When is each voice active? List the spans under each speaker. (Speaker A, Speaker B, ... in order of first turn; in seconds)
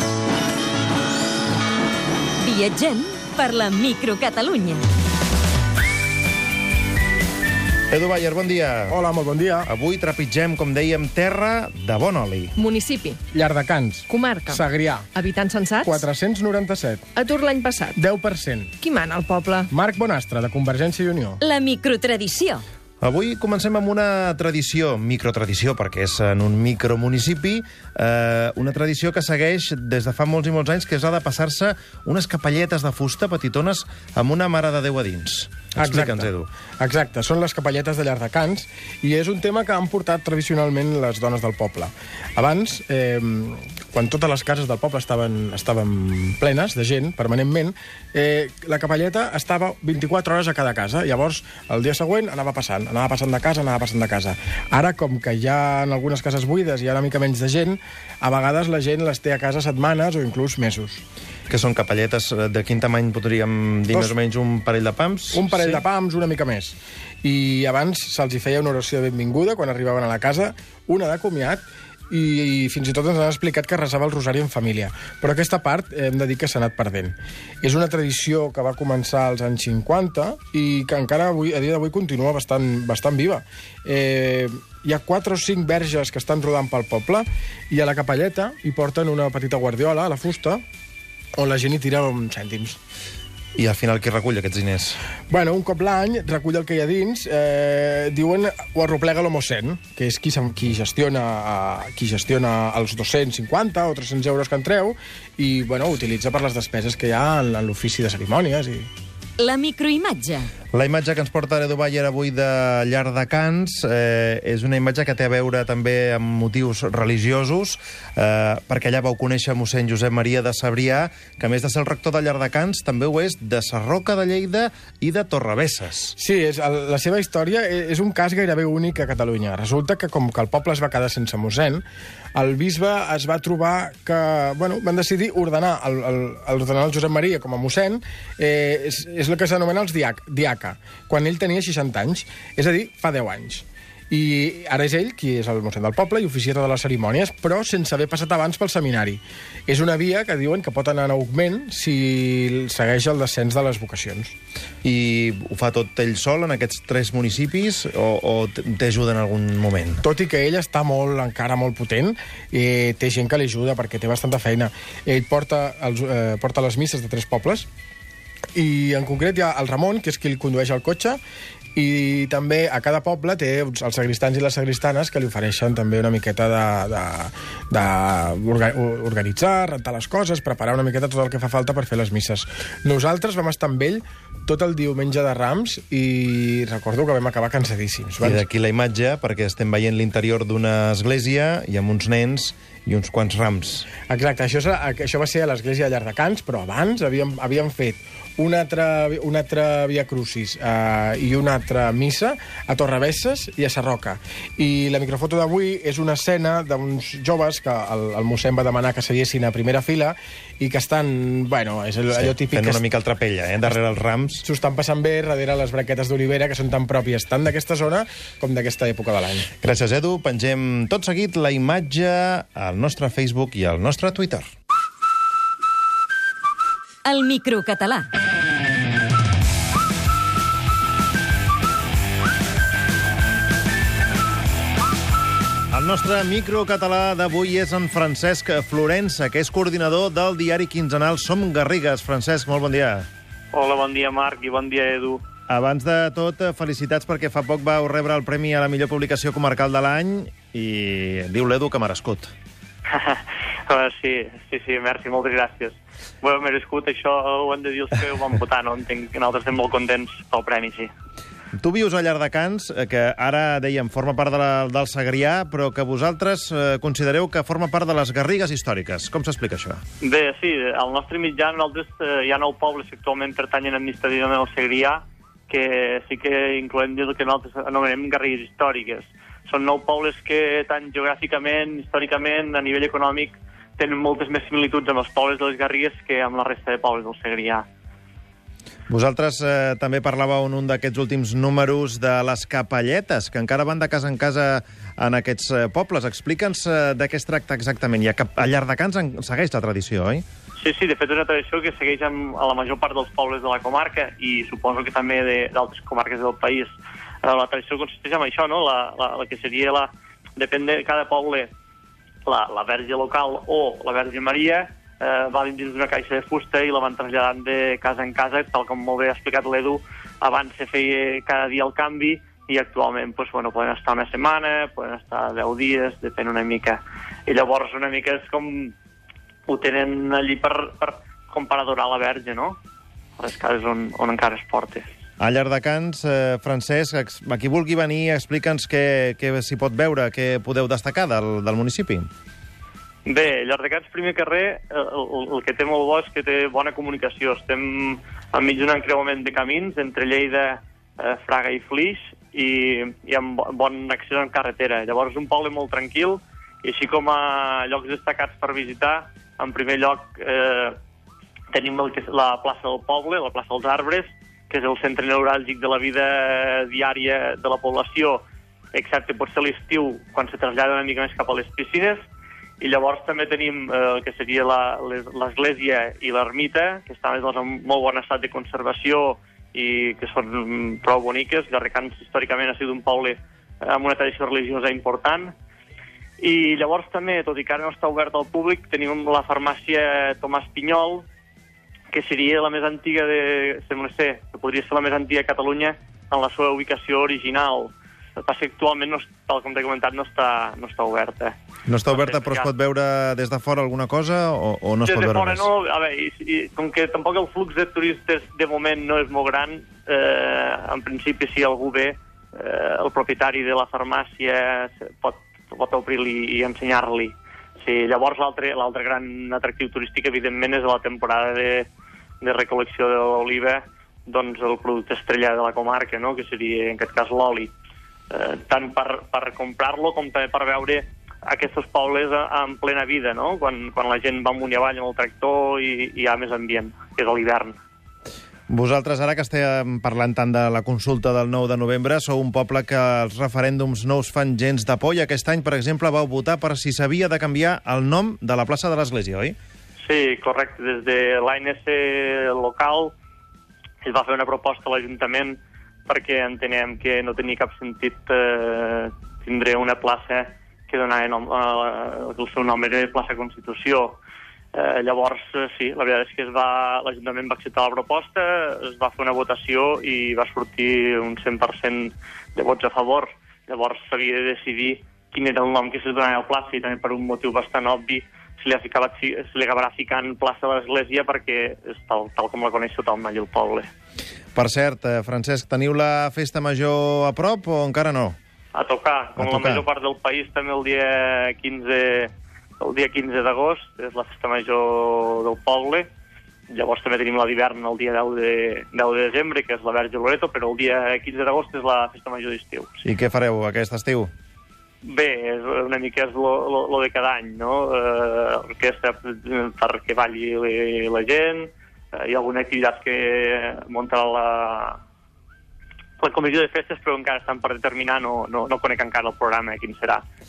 Speaker A: 2.4-4.8, 21.4-22.6, 109.4-110.5, 227.1-228.1
Speaker B: 7.9-8.9, 9.7-12.5, 23.0-36.5, 61.5-65.8, 93.5-95.0, 110.7-126.1, 154.8-160.0, 188.2-193.9, 212.1-214.4, 219.6-224.5, 235.7-243.1, 245.5-252.3, 261.6-269.8, 288.9-300.2, 335.2-342.1, 401.6-405.5, 438.5-449.4, 484.3-488.1, 489.2-489.6, 502.8-504.1
Speaker C: 8.9-9.7, 13.3-15.1, 15.8-17.1, 17.9-18.8, 19.7-21.4, 35.8-61.0, 65.3-90.6, 91.4-92.8, 95.3-108.9, 126.2-131.8, 132.3-154.3, 160.0-167.7, 168.5-171.2, 171.7-188.4, 194.1-212.8, 214.4-219.5
Speaker D: 12.6-13.2, 14.1-14.6, 15.1-16.0, 17.1-17.9, 18.8-19.7, 21.8-22.4
Speaker E: 243.5-245.2, 252.9-260.9, 270.0-287.6, 300.6-311.5, 312.2-328.7, 329.5-332.6, 333.2-334.8, 343.0-360.8, 361.5-372.0, 372.6-385.3, 386.2-391.1, 391.9-401.3, 401.9-402.5, 404.8-421.7, 422.2-427.5, 428.1-437.6, 449.8-452.9, 453.8-464.0, 464.5-483.7, 488.5-495.9, 496.5-502.8, 504.8-514.8, 516.0-520.0